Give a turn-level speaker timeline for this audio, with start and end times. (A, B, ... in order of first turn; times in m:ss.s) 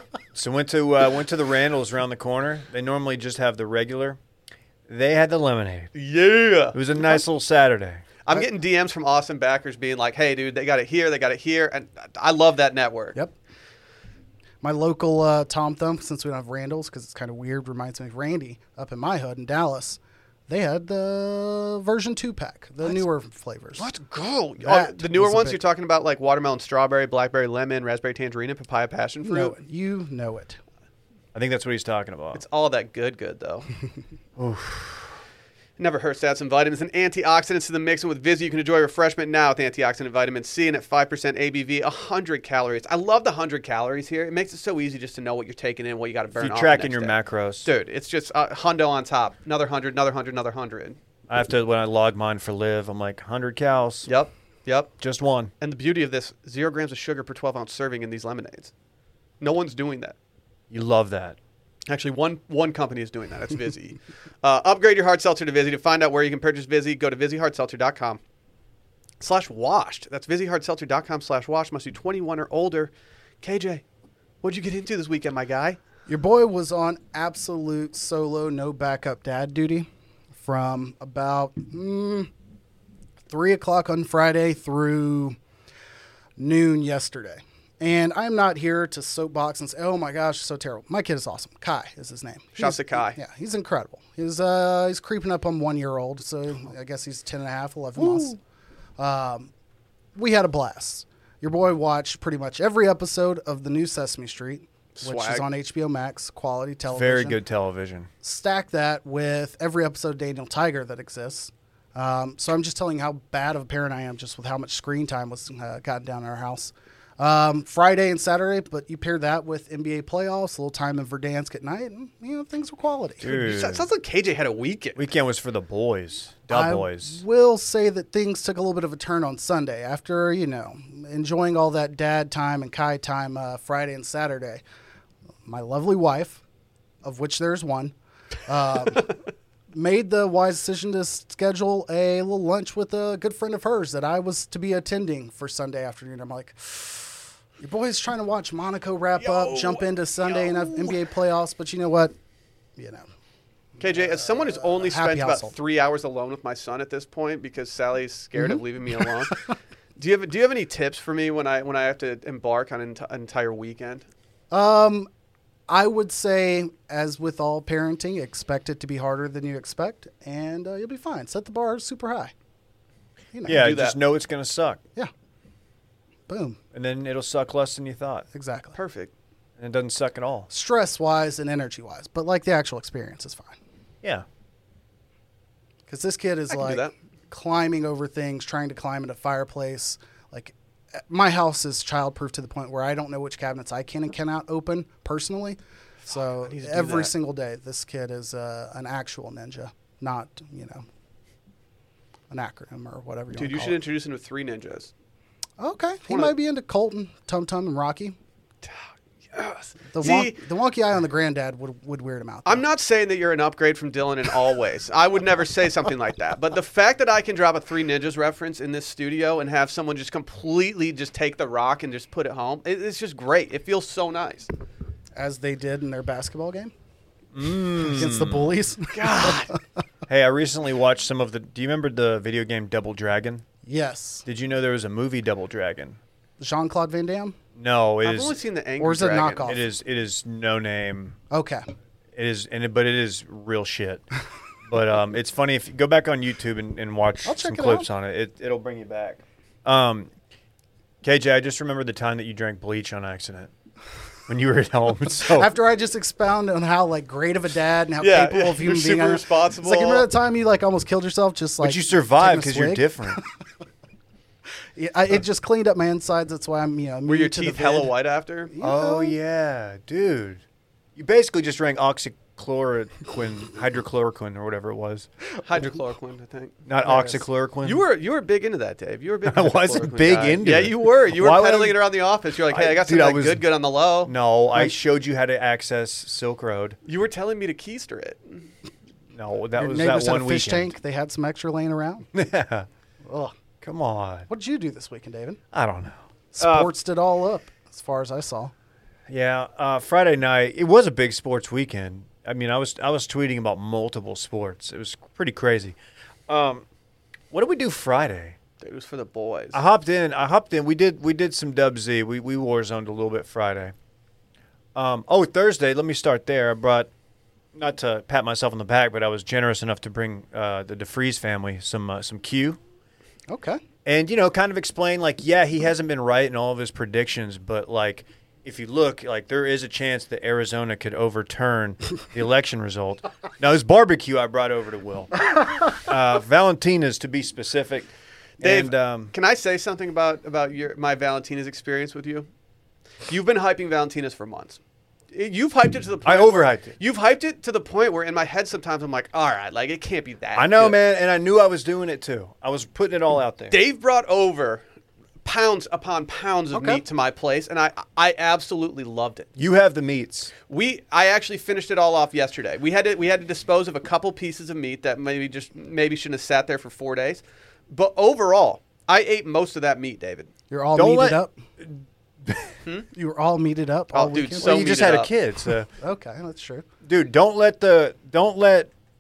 0:00.3-0:04.2 A
0:04.9-0:05.9 A
0:05.9-0:07.2 B
0:06.7-0:08.0 A
0:08.2-0:13.2 B
0:14.6-0:23.9 C
0:23.8-0:29.6 B
0:24.6-0:25.6 C
0:29.2-0:30.6 C
0:31.3-0:32.4 A
0:32.3-0:33.7 B
0:34.4-0:35.2 A
0:35.8-0:51.0 B
0:46.4-0:47.7 A
0:51.3-0:54.1 A
0:54.1-0:54.9 B
0:55.0-0:55.5 A
0:55.6-0:58.7 B
0:59.4-1:00.2 B
1:00.7-1:01.4 A
1:01.9-1:08.2 B
1:09.2-1:13.8 B
1:14.4-1:15.8 B
1:16.1-1:19.9 C
1:20.4-1:22.3 C
1:23.3-1:25.4 C
1:26.4-1:38.4 C
1:32.6-1:33.2 B
1:39.0-1:39.5 C
1:40.2-1:47.4 C
1:45.0-1:45.4 B
1:46.9-1:48.1 A
1:48.2-2:03.3 C
2:03.2-2:03.9 A
2:03.3-2:05.0 B
2:05.0-2:07.2 A
2:06.5-2:14.6 C
2:15.4-2:16.4 C
2:17.0-2:17.9 C
2:18.5-2:19.2 C
2:19.7-2:32.1 C
2:29.2-2:31.0 B
2:32.8-2:33.0 C
2:33.8-2:39.4 B
2:33.9-2:35.6 C
2:38.4-2:39.3 C
2:40.0-2:44.0 B
2:44.5-2:45.1 C
2:45.7-2:52.3 C
2:53.3-2:53.8 C
2:53.5-2:54.8 A
2:53.5-2:54.0 B
2:56.3-2:56.6 C
2:56.7-2:58.3 A
2:58.3-2:58.8 C
2:58.8-2:59.1 B
2:59.6-3:00.5 A
3:00.5-3:03.6 C
3:05.9-3:20.8 C
3:06.5-3:06.9 B
3:16.1-3:17.1 B
3:22.3-3:23.8 C
3:23.3-3:24.9 B
3:25.6-3:28.2 C
3:29.3-3:30.4 B
3:29.9-3:32.6 C
3:32.5-3:44.5 B
3:45.2-3:46.7 C
3:47.3-3:48.6 A
3:47.8-3:49.6 C
3:48.9-3:49.5 B
3:50.1-3:53.4 A
3:53.6-3:54.2 C
3:54.2-3:56.0 A
3:56.4-3:57.4 C
3:57.6-3:58.4 A
3:58.0-3:59.6 B
3:58.8-3:59.6 C
3:59.4-4:01.2 A
4:01.3-4:01.6 C
4:02.2-4:04.0 A
4:04.7-4:10.1 A
4:07.2-4:07.9 C
4:11.0-4:13.5 A
4:14.3-4:15.5 A
4:15.3-4:23.3 C
4:18.0-4:20.1 B
4:21.6-4:23.2 A
4:24.8-4:27.9 C
4:27.1-4:28.5 B
4:28.5-4:29.2 C
4:28.6-4:30.4 A
4:31.0-4:35.1 A
4:35.4-4:36.6 B
4:36.7-4:37.8 A
4:36.9-4:37.1 C
4:37.6-4:44.1 B
4:39.3-4:41.8 A
4:42.5-4:43.5 A
4:44.1-4:46.8 A
4:46.8-4:48.5 B
4:49.1-4:50.7 A
4:49.6-4:52.1 C
4:52.1-4:52.7 A
4:53.0-4:53.4 C
4:53.6-4:54.3 A
4:54.3-4:55.4 C
4:55.5-4:56.7 A
4:56.3-4:58.5 C
4:59.1-5:05.8 A
5:06.3-5:06.6 A
5:07.3-5:08.4 A
5:08.6-5:09.6 B
5:09.5-5:13.7 A
5:14.8-5:16.9 A
5:17.6-5:22.6 A
5:23.3-5:23.6 C
5:23.8-5:37.9 A
5:38.4-5:39.1 A
5:38.4-5:42.3 B
5:43.1-5:44.6 B
5:45.1-5:50.8 B
5:46.0-5:46.8 A
5:50.4-5:53.6 A
5:53.5-5:54.6 B
5:55.2-5:59.3 B
5:56.5-5:56.8 C
5:59.4-6:00.3 A
6:00.5-6:10.3 B
6:10.5-6:11.4 C
6:10.8-6:12.5 A
6:12.9-6:14.6 C
6:13.9-6:15.1 B
6:14.4-6:15.7 A
6:15.8-6:16.6 C
6:16.8-6:18.7 A